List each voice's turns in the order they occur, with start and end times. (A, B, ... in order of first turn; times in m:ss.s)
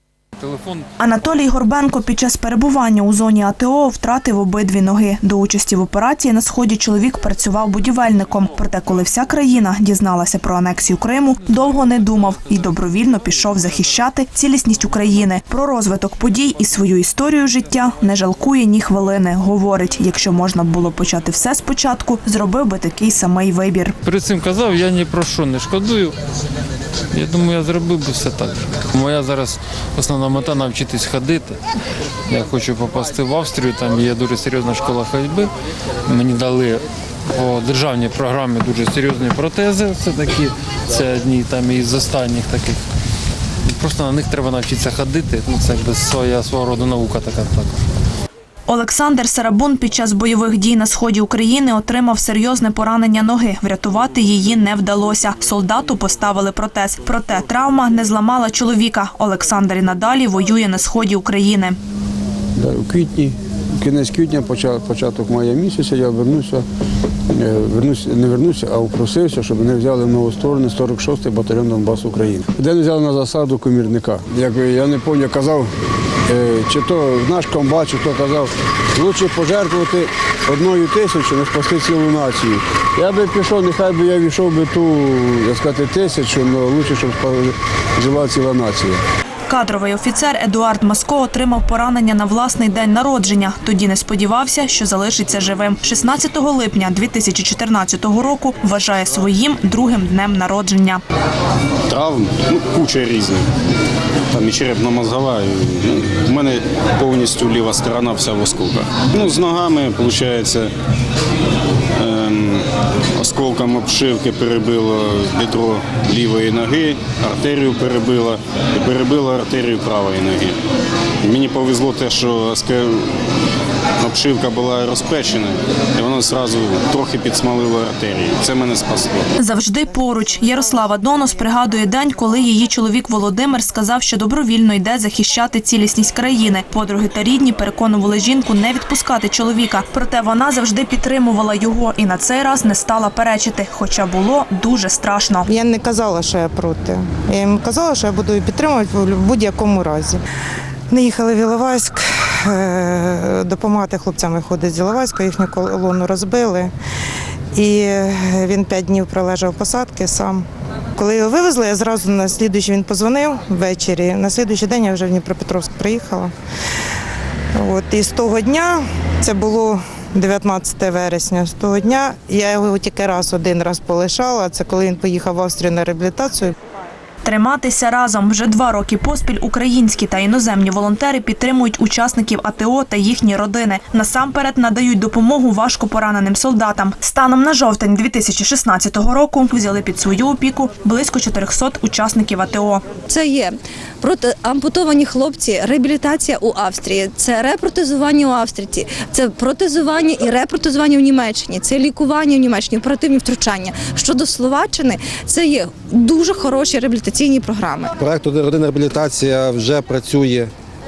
0:00.4-0:00.9 A
0:01.0-0:24.0 B
0:24.0-0:26.2 A
0:27.1-0:31.6 A
0:32.3-0:35.5 A
0:36.1-0:42.8 A
0:43.8-0:47.7 A
0:48.7-1:01.8 B
1:02.6-1:06.6 C
1:07.3-1:15.7 C
1:16.3-1:29.0 C
1:29.5-1:41.0 B
1:41.9-1:43.5 D
1:44.3-1:50.7 D
1:52.0-2:00.6 D
2:01.2-2:03.2 D
2:04.0-2:09.2 D
2:09.4-2:25.5 B
2:25.5-2:30.2 E
2:30.9-2:36.7 E
2:37.6-2:40.4 E
2:41.0-2:46.3 E
2:47.6-2:56.6 E
2:57.2-3:12.8 B
3:13.1-3:27.9 F
3:28.0-3:30.5 G